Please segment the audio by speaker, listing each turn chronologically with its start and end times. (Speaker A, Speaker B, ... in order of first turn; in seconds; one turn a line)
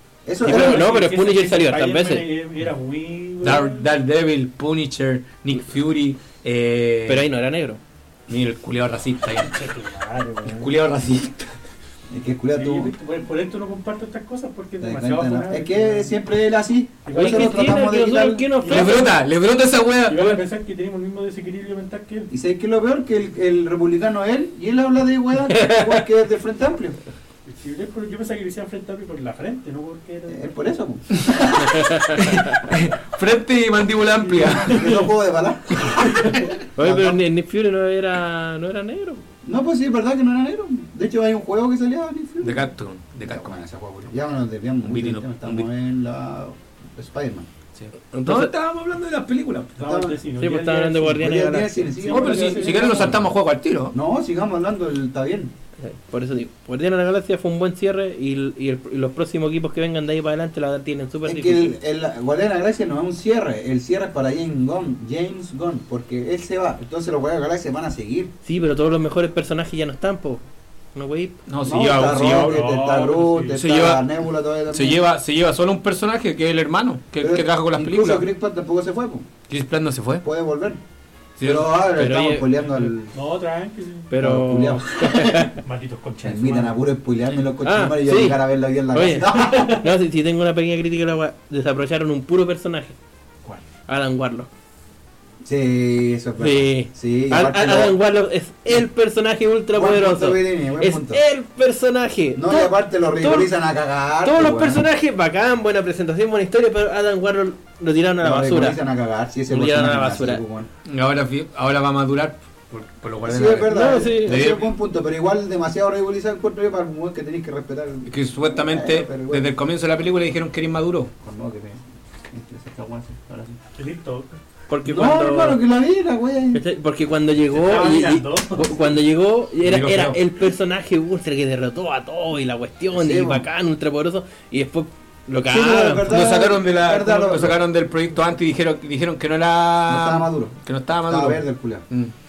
Speaker A: 0.2-0.9
Speaker B: 0.4-3.9
Speaker C: 0.4-2.3
Speaker D: 3.4-7.3
Speaker C: 7.1-7.8
Speaker D: 8.3-9.6
Speaker B: 9.4-10.7
Speaker D: 10.4-11.5
Speaker A: 12.1-12.9
Speaker B: 12.5-16.1
Speaker A: 14.8-18.5
Speaker B: 17.1-17.8
Speaker C: 17.1-19.1
Speaker B: 18.6-19.1
Speaker D: 18.7-20.4
Speaker B: 20.1-22.3
Speaker A: 22.3-27.0
Speaker C: 25.5-26.0
Speaker B: 27.4-30.6
Speaker A: 30.3-31.7
Speaker C: 31.6-32.2
Speaker D: 32.1-35.0
Speaker B: 34.3-35.0
Speaker A: 34.6-37.2
Speaker B: 36.0-36.4
Speaker C: 36.8-39.2
Speaker A: 39.4-42.7
Speaker D: 42.4-43.6
Speaker A: 43.2-47.5
Speaker D: 44.8-45.7
Speaker D: 47.7-49.8
Speaker C: 48.1-48.5
Speaker B: 49.8-51.2
Speaker A: 49.8-50.2
Speaker C: 50.4-51.9
Speaker A: 51.0-53.3
Speaker B: 52.0-53.2
Speaker D: 52.1-53.9
Speaker A: 53.9-55.5
Speaker C: 55.8-61.8
Speaker A: 61.2-68.3
Speaker C: 68.4-70.4
Speaker C: 70.9-71.3
Speaker D: 71.5-72.6
Speaker A: 71.6-75.0
Speaker B: 72.2-73.6
Speaker D: 73.5-74.1
Speaker D: 74.7-78.2
Speaker A: 77.2-79.3
Speaker D: 79.5-80.2
Speaker A: 80.2-80.8
Speaker D: 81.4-81.7
Speaker A: 81.4-83.1
Speaker C: 82.0-82.5
Speaker B: 83.1-84.1
Speaker C: 84.1-85.5
Speaker A: 84.1-85.5
Speaker B: 85.6-86.8
Speaker A: 86.2-89.8
Speaker C: 87.6-88.4
Speaker C: 88.9-92.9
Speaker C: 93.9-94.5
Speaker A: 95.4-98.0
Speaker C: 96.4-103.5
Speaker A: 99.7-101.2
Speaker A: 102.3-104.8
Speaker C: 104.2-108.8
Speaker A: 108.2-110.7
Speaker C: 109.5-110.4
Speaker D: 110.8-114.7
Speaker A: 113.2-119.5
Speaker C: 113.7-114.4
Speaker D: 118.1-121.1
Speaker A: 121.2-123.6
Speaker B: 123.8-124.4
Speaker C: 124.7-125.6
Speaker A: 124.8-126.6
Speaker C: 126.5-136.0
Speaker B: 127.5-128.9
Speaker D: 129.6-130.2
Speaker A: 132.9-133.4
Speaker A: 135.4-137.6
Speaker D: 135.6-142.1
Speaker A: 139.9-141.8